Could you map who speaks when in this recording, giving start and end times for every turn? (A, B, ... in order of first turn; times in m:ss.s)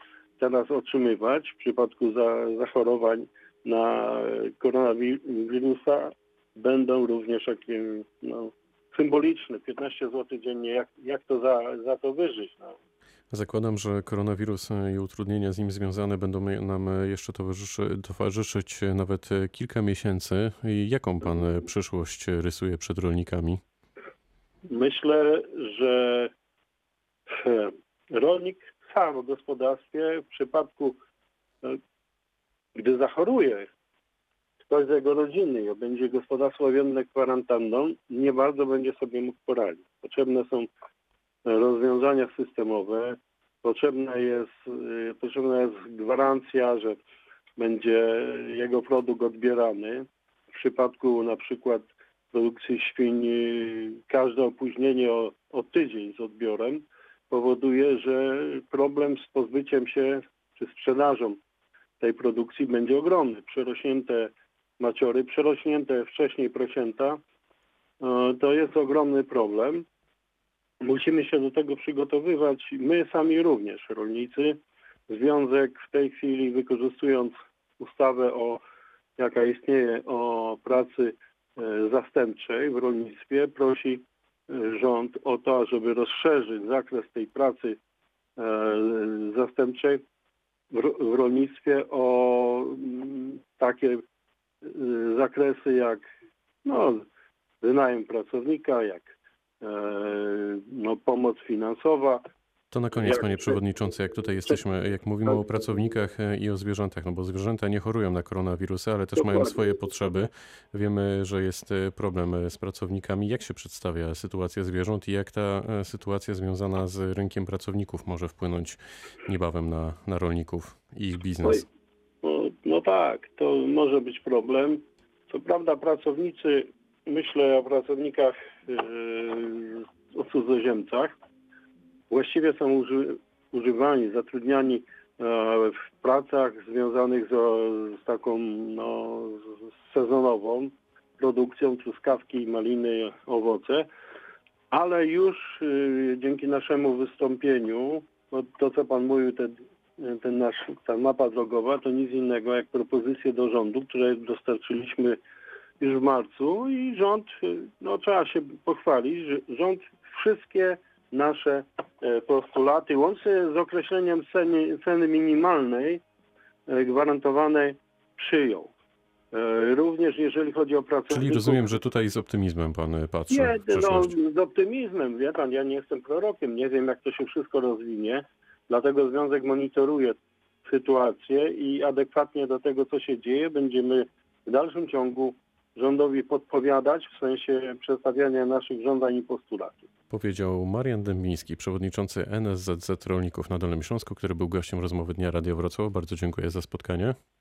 0:00.4-0:12.8 A
0:13.3-0:23.6 B
0:24.7-0:26.3 A
0:27.3-0:31.0 A
0:32.8-0:33.7 A
0:34.7-0:40.7 A
0:41.4-0:47.0 A
0:47.6-1:01.4 A
1:02.0-1:07.2 A
1:08.0-1:09.9 A
1:10.8-1:18.6 A
1:19.2-1:27.8 A
1:28.4-1:30.0 A
1:30.7-1:34.0 A
1:34.6-1:36.1 A
1:36.6-1:37.0 A
1:37.6-1:42.2 A
1:42.7-2:01.6 B
2:02.2-2:11.1 A
2:12.1-2:23.9 A
2:24.7-2:35.2 A
2:35.8-2:46.0 A
2:46.7-2:48.7 A
2:49.3-2:51.8 A
2:51.1-2:54.1 B
2:53.3-3:09.9 A
3:10.1-3:17.1 B